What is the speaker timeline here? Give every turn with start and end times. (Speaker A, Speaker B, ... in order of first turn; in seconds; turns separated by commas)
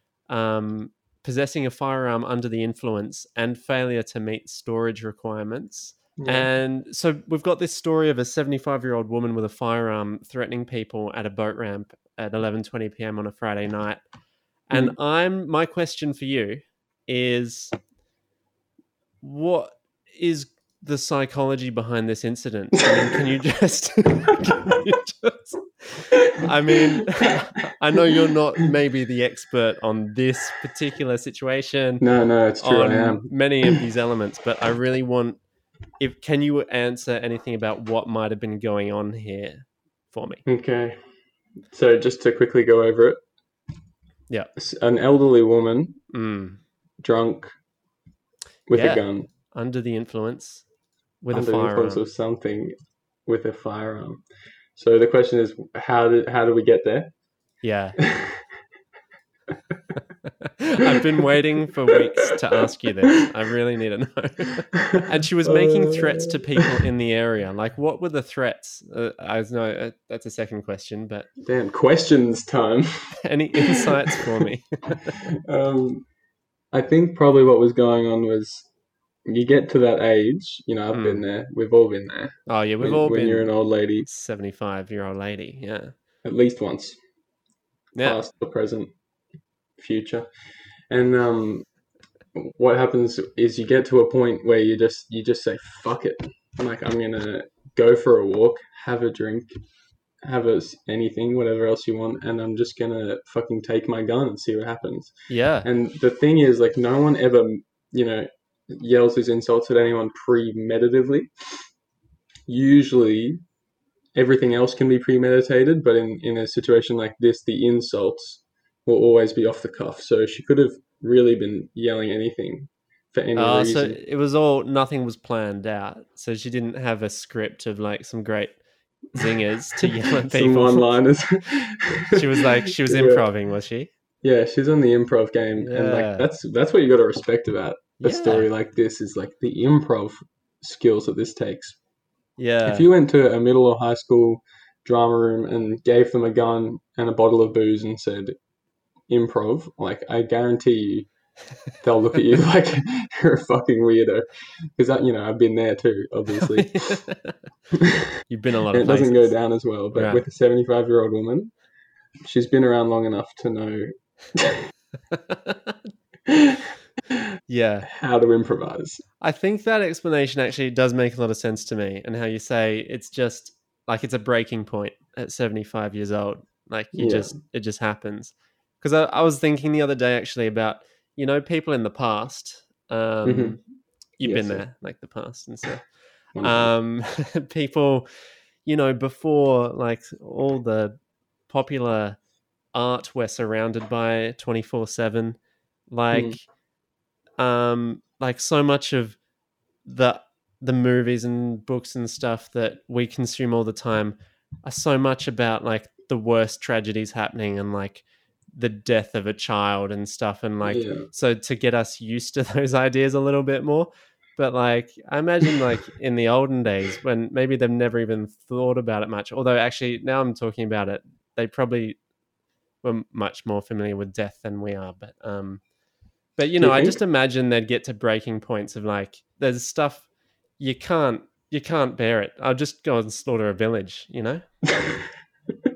Speaker A: 0.3-14.0, Speaker B: 6.2-6.5, Speaker A: 14.7-17.7, Speaker A: 19.2-32.0, Speaker B: 32.0-33.8, Speaker A: 32.6-35.4, Speaker A: 36.0-40.4, Speaker B: 40.5-41.0, Speaker B: 41.7-43.2, Speaker B: 44.6-46.0, Speaker A: 46.1-46.6, Speaker B: 47.0-47.5, Speaker B: 48.7-49.3, Speaker A: 48.7-50.6, Speaker A: 51.2-52.0, Speaker B: 51.3-52.7, Speaker B: 53.3-54.2, Speaker B: 54.8-57.1, Speaker A: 57.6-58.0, Speaker B: 58.0-58.4, Speaker A: 60.3-71.3, Speaker B: 64.9-66.6, Speaker B: 71.4-74.2, Speaker A: 73.2-75.2, Speaker B: 75.5-76.1, Speaker B: 76.7-78.7, Speaker B: 79.3-84.1, Speaker A: 80.9-81.2, Speaker A: 82.5-83.5, Speaker A: 84.0-85.9, Speaker B: 86.2-87.0, Speaker B: 88.0-88.9, Speaker B: 89.8-90.3, Speaker B: 90.9-91.7, Speaker B: 92.3-99.5, Speaker B: 100.2-111.3, Speaker A: 105.3-105.7, Speaker B: 112.5-113.4, Speaker B: 114.2-124.0, Speaker A: 123.4-128.6, Speaker A: 129.2-131.0, Speaker B: 129.2-133.3, Speaker A: 132.1-133.9, Speaker B: 134.2-141.8, Speaker A: 135.6-136.3, Speaker A: 138.0-138.5, Speaker A: 142.4-142.9, Speaker B: 142.6-148.3, Speaker B: 149.1-151.1, Speaker B: 151.8-157.0, Speaker A: 156.4-157.4, Speaker B: 157.8-158.0, Speaker A: 158.3-159.3, Speaker B: 158.7-161.5, Speaker A: 159.9-160.2, Speaker B: 162.2-164.7, Speaker A: 165.1-165.8, Speaker B: 166.3-166.7, Speaker A: 167.5-167.9, Speaker B: 167.9-169.1, Speaker A: 169.2-183.6, Speaker B: 176.9-177.4, Speaker B: 183.2-183.6, Speaker A: 184.2-185.8, Speaker B: 184.2-184.7, Speaker B: 186.3-186.7, Speaker A: 186.4-188.1, Speaker A: 188.7-191.0, Speaker A: 191.5-192.2, Speaker A: 192.7-195.4, Speaker A: 195.9-196.4, Speaker B: 196.1-196.4, Speaker A: 197.4-199.2, Speaker A: 199.8-222.0, Speaker B: 210.6-211.1, Speaker A: 222.8-225.6, Speaker A: 226.4-230.1, Speaker B: 226.6-227.0, Speaker A: 230.6-234.4